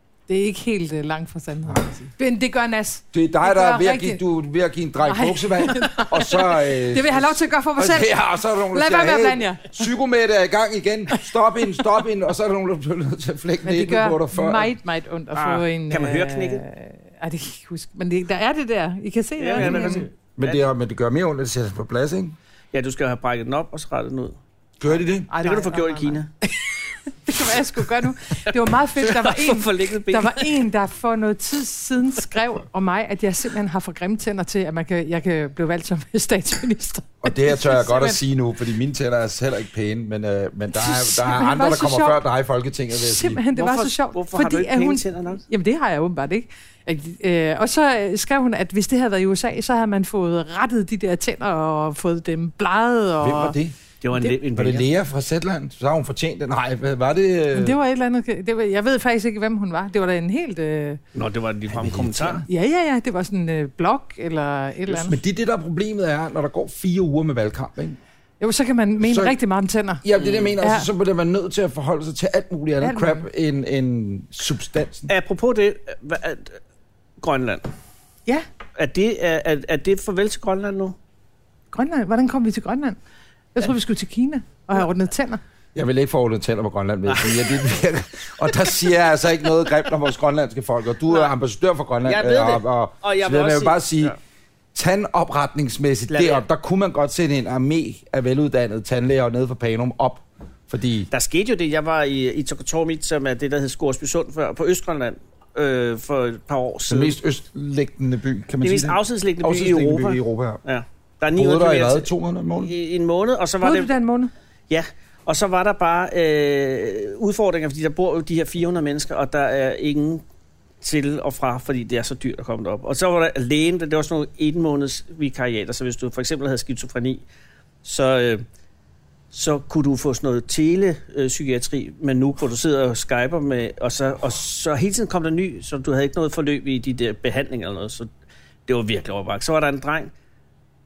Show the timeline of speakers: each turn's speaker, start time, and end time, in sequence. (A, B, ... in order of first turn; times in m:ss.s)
0:00.3-0:04.2 A
0:03.1-0:14.7 B
0:05.0-0:09.7 A
0:11.1-0:11.9 A
0:13.6-0:20.1 A
0:15.3-0:16.6 C
0:19.4-0:20.6 C
0:19.6-0:22.4 B
0:22.7-0:24.4 C
0:24.8-0:25.3 B
0:25.3-0:38.2 A
0:25.4-0:26.3 C
0:28.3-0:30.6 C
0:37.2-0:43.4 B
0:40.7-0:42.2 A
0:42.9-0:53.6 A
0:43.5-0:45.4 C
0:53.2-0:53.8 B
0:54.0-0:54.9 C
0:54.5-0:57.8 B
0:57.5-1:01.0 A
1:01.1-1:02.4 C
1:01.7-1:02.4 B
1:02.5-1:05.2 A
1:04.9-1:08.0 B
1:08.4-1:10.0 A
1:09.0-1:09.4 B
1:10.0-1:15.1 B
1:10.2-1:10.5 C
1:10.6-1:10.9 A
1:12.8-1:13.2 A
1:15.1-1:16.6 C
1:17.2-1:17.7 C
1:18.8-1:20.9 C
1:21.7-1:23.0 A
1:23.5-1:25.4 A
1:25.7-1:34.1 B
1:27.1-1:27.6 C
1:32.0-1:34.2 C
1:34.7-1:41.1 B
1:36.1-1:36.4 C
1:41.1-1:47.2 C
1:46.9-1:50.6 B
1:48.6-1:53.9 C
1:51.3-1:52.7 B
1:53.6-1:54.3 A
1:54.7-2:00.2 C
2:00.8-2:07.2 C
2:07.8-2:08.4 C
2:09.3-2:18.1 C
2:18.7-2:20.1 C